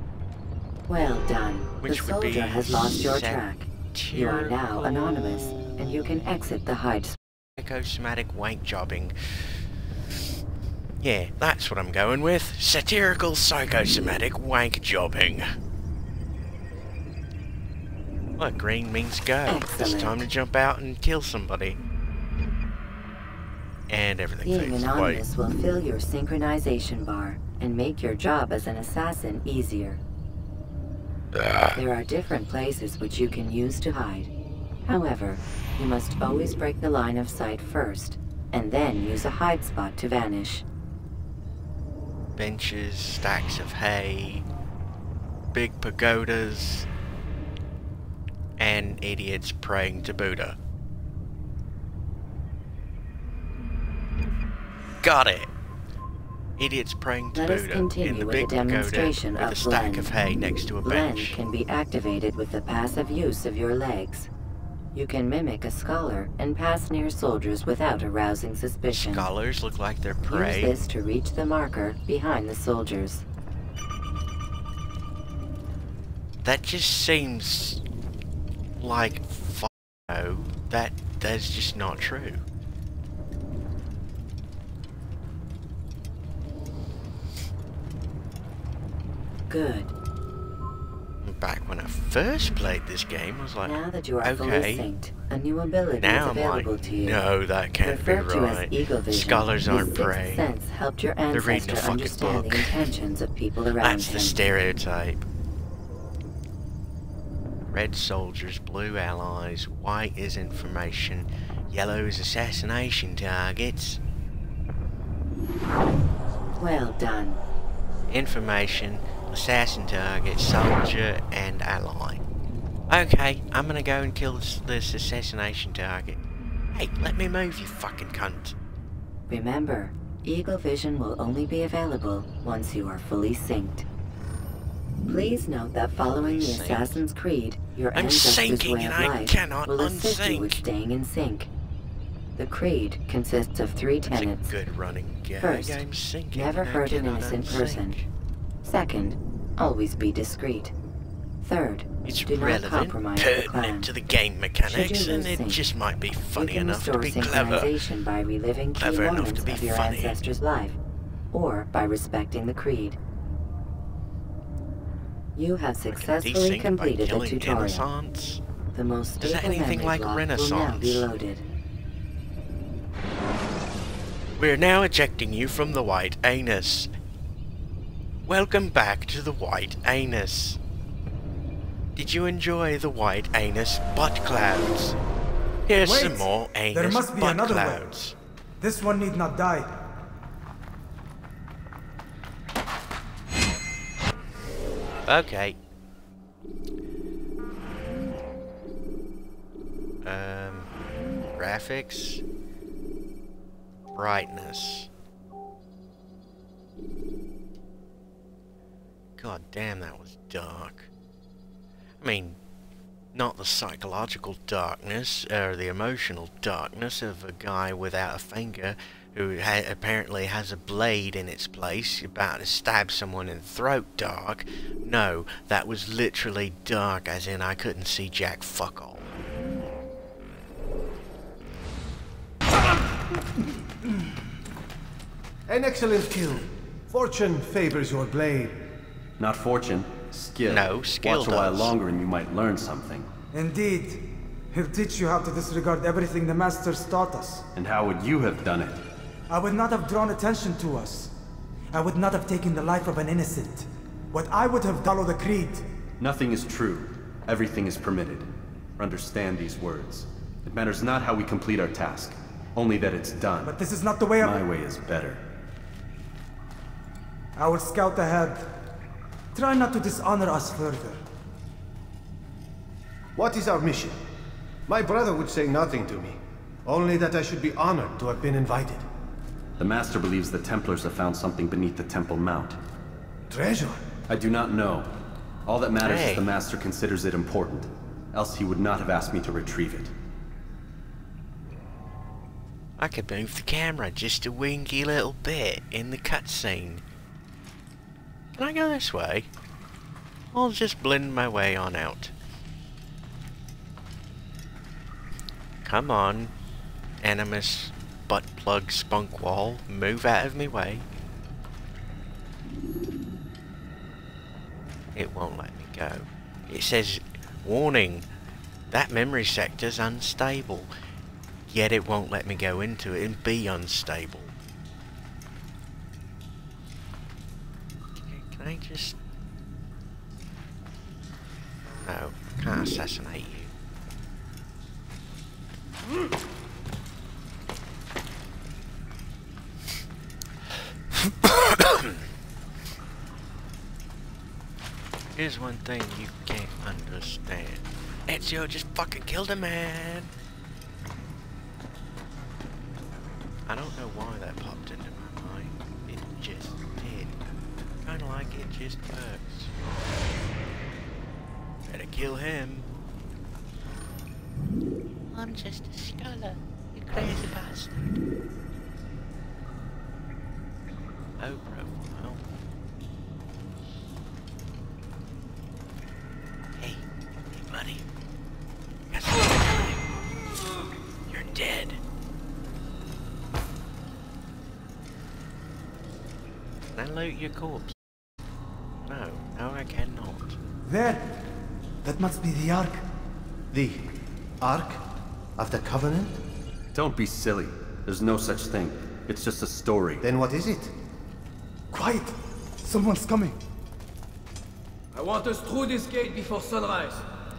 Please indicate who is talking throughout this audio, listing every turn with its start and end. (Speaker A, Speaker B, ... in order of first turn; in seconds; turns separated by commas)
Speaker A: 0.9-7.2, Speaker B: 1.8-5.8, Speaker B: 7.6-9.6, Speaker B: 11.0-15.5, Speaker B: 18.4-21.8, Speaker A: 19.5-20.3, Speaker B: 23.9-25.2, Speaker A: 24.4-30.0, Speaker A: 31.7-34.3, Speaker A: 34.8-40.6, Speaker B: 42.4-44.4, Speaker B: 45.5-46.9, Speaker B: 48.6-50.6, Speaker B: 55.0-55.5, Speaker B: 56.6-61.4, Speaker A: 57.3-60.1, Speaker A: 60.8-64.3, Speaker A: 64.9-69.3, Speaker B: 68.9-70.8, Speaker A: 70.2-73.2, Speaker B: 76.4-77.8, Speaker B: 78.8-82.4, Speaker A: 89.5-89.9, Speaker B: 91.2-94.9, Speaker A: 93.6-97.2, Speaker B: 96.0-100.5, Speaker A: 97.8-104.4, Speaker B: 101.3-102.7, Speaker B: 103.8-105.2, Speaker B: 107.7-114.0, Speaker A: 116.6-117.4, Speaker B: 118.1-122.2, Speaker B: 122.9-126.2, Speaker B: 126.7-128.6, Speaker A: 129.3-133.8, Speaker A: 135.1-141.5, Speaker B: 136.0-137.0, Speaker B: 137.9-140.6, Speaker A: 142.4-144.5, Speaker B: 144.1-148.1, Speaker A: 145.4-145.8, Speaker A: 146.3-148.0, Speaker A: 148.6-150.7, Speaker A: 151.4-153.9, Speaker B: 152.0-157.7, Speaker A: 154.7-155.6, Speaker A: 156.3-160.8, Speaker B: 158.8-160.2, Speaker A: 161.3-163.0, Speaker A: 165.3-167.9, Speaker B: 165.9-168.4, Speaker A: 168.7-171.4, Speaker B: 169.2-171.1, Speaker B: 174.4-176.9, Speaker B: 178.2-180.6, Speaker B: 181.9-184.9, Speaker B: 185.7-188.1, Speaker C: 185.8-187.8, Speaker C: 188.6-189.8, Speaker B: 195.1-195.6, Speaker B: 200.0-200.7, Speaker B: 201.3-202.2, Speaker B: 203.9-204.9, Speaker B: 209.2-210.9, Speaker B: 212.0-212.4, Speaker B: 213.1-229.1, Speaker D: 235.5-238.6, Speaker E: 239.2-243.1, Speaker B: 240.5-241.7, Speaker C: 243.3-247.4, Speaker E: 247.5-248.8, Speaker C: 249.3-251.1, Speaker C: 251.7-255.6, Speaker E: 256.0-263.5, Speaker C: 263.4-264.4, Speaker E: 264.2-265.2, Speaker C: 267.4-268.5, Speaker C: 269.3-271.0, Speaker D: 273.1-274.0, Speaker D: 274.7-278.8, Speaker E: 279.6-282.6, Speaker D: 283.3-283.8, Speaker E: 284.1-284.9, Speaker E: 285.4-289.9, Speaker B: 285.8-286.3, Speaker B: 292.8-296.8, Speaker B: 298.3-299.3, Speaker B: 300.3-302.1, Speaker B: 305.6-306.3, Speaker B: 307.0-310.8, Speaker B: 314.9-318.1, Speaker B: 318.7-320.7, Speaker B: 321.5-324.3, Speaker B: 328.0-329.0, Speaker B: 331.8-333.5, Speaker B: 341.3-341.9, Speaker B: 345.1-350.1, Speaker B: 353.5-357.2, Speaker B: 357.8-359.5, Speaker B: 361.7-362.7, Speaker B: 365.1-367.9, Speaker B: 371.2-372.2, Speaker B: 376.6-377.8, Speaker B: 378.9-379.8, Speaker B: 381.1-381.8, Speaker B: 386.7-387.7, Speaker B: 388.9-390.4, Speaker C: 390.6-391.1, Speaker C: 391.8-392.8, Speaker D: 393.5-393.9, Speaker D: 394.4-396.2, Speaker E: 396.7-400.0, Speaker D: 400.0-400.7, Speaker C: 401.7-403.4, Speaker F: 404.9-407.1